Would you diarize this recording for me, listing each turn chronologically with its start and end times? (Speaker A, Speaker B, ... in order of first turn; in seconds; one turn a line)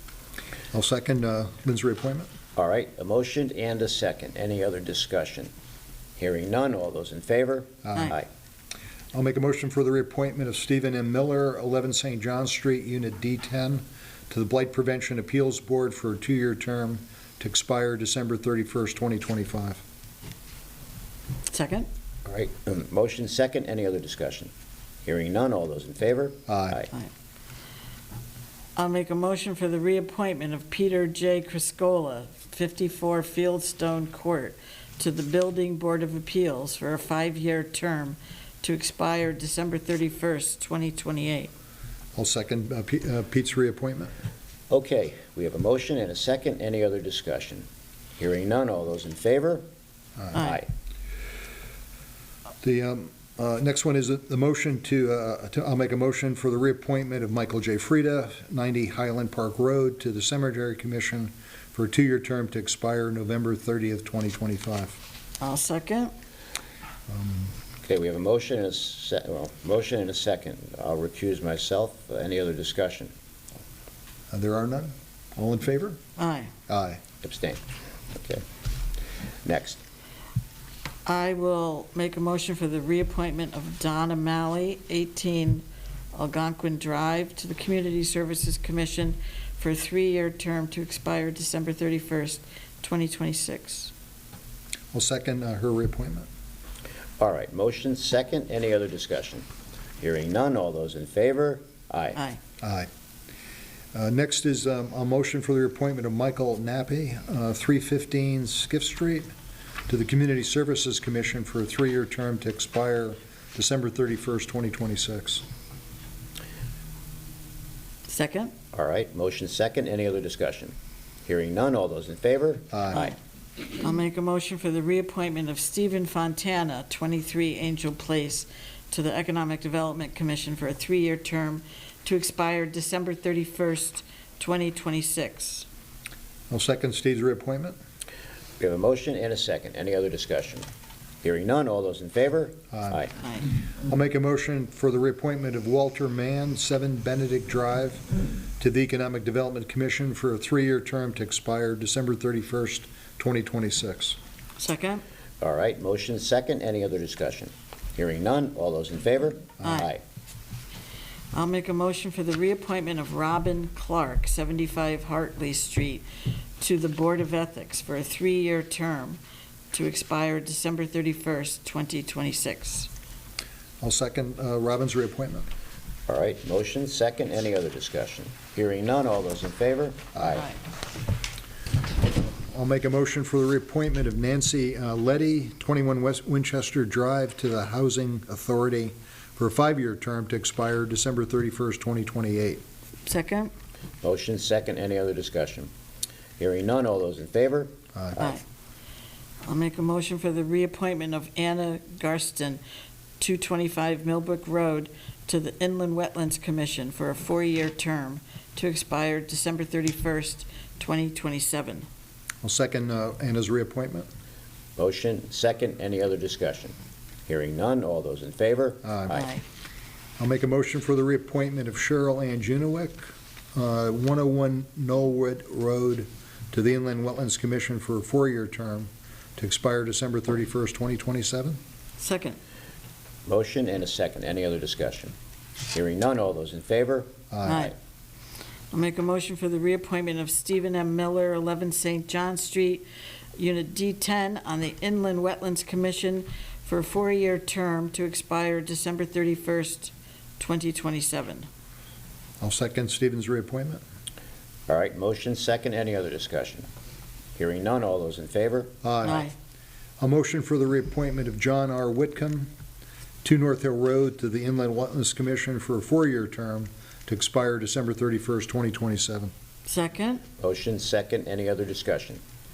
Speaker A: 0.7-2.3
Speaker B: 2.6-5.5
Speaker B: 6.2-8.3
Speaker A: 7.8-8.2
Speaker A: 9.1-19.8
Speaker C: 21.5-21.9
Speaker B: 22.2-24.5
Speaker B: 25.1-26.9
Speaker A: 26.5-26.8
Speaker C: 28.8-41.5
Speaker A: 42.1-44.1
Speaker B: 44.7-47.7
Speaker B: 48.2-49.7
Speaker B: 50.3-50.7
Speaker C: 50.4-50.6
Speaker A: 52.6-65.0
Speaker C: 65.4-66.1
Speaker A: 67.1-67.5
Speaker B: 67.8-73.1
Speaker A: 74.3-76.0
Speaker C: 76.2-76.5
Speaker A: 76.7-77.0
Speaker B: 77.2-77.6
Speaker B: 78.1-78.4
Speaker B: 79.5-79.8
Speaker C: 81.1-93.9
Speaker A: 94.9-96.3
Speaker B: 97.2-99.5
Speaker B: 100.0-102.2
Speaker A: 102.6-102.9
Speaker A: 103.9-109.3
Speaker A: 109.9-115.4
Speaker C: 118.1-118.5
Speaker B: 118.7-120.7
Speaker B: 121.2-123.2
Speaker A: 122.7-123.1
Speaker C: 123.8-135.7
Speaker A: 136.5-137.8
Speaker B: 138.6-140.7
Speaker B: 141.2-143.1
Speaker A: 142.7-143.0
Speaker C: 143.2-143.5
Speaker A: 143.8-148.0
Speaker A: 148.6-154.2
Speaker C: 154.6-155.0
Speaker B: 155.4-160.0
Speaker C: 159.6-159.9
Speaker C: 161.3-166.1
Speaker C: 166.6-169.2
Speaker C: 169.7-172.9
Speaker A: 173.8-175.5
Speaker B: 176.1-180.5
Speaker A: 182.5-192.6
Speaker C: 193.1-193.5
Speaker B: 194.0-195.7
Speaker B: 196.4-198.4
Speaker C: 199.4-202.6
Speaker C: 203.2-211.9
Speaker A: 212.4-214.1
Speaker B: 214.8-216.8
Speaker B: 217.3-219.3
Speaker A: 218.8-219.3
Speaker C: 219.1-219.4
Speaker A: 220.2-223.0
Speaker A: 223.6-231.6
Speaker C: 232.0-232.4
Speaker B: 233.3-235.1
Speaker B: 235.7-237.7
Speaker A: 237.3-237.7
Speaker C: 237.5-237.7
Speaker C: 238.7-242.8
Speaker C: 243.4-251.5
Speaker A: 252.4-253.8
Speaker B: 254.7-256.7
Speaker B: 257.4-258.7
Speaker A: 258.8-259.3
Speaker C: 259.0-259.3
Speaker A: 260.0-262.5
Speaker A: 263.2-269.3
Speaker C: 269.7-270.2
Speaker B: 270.4-272.2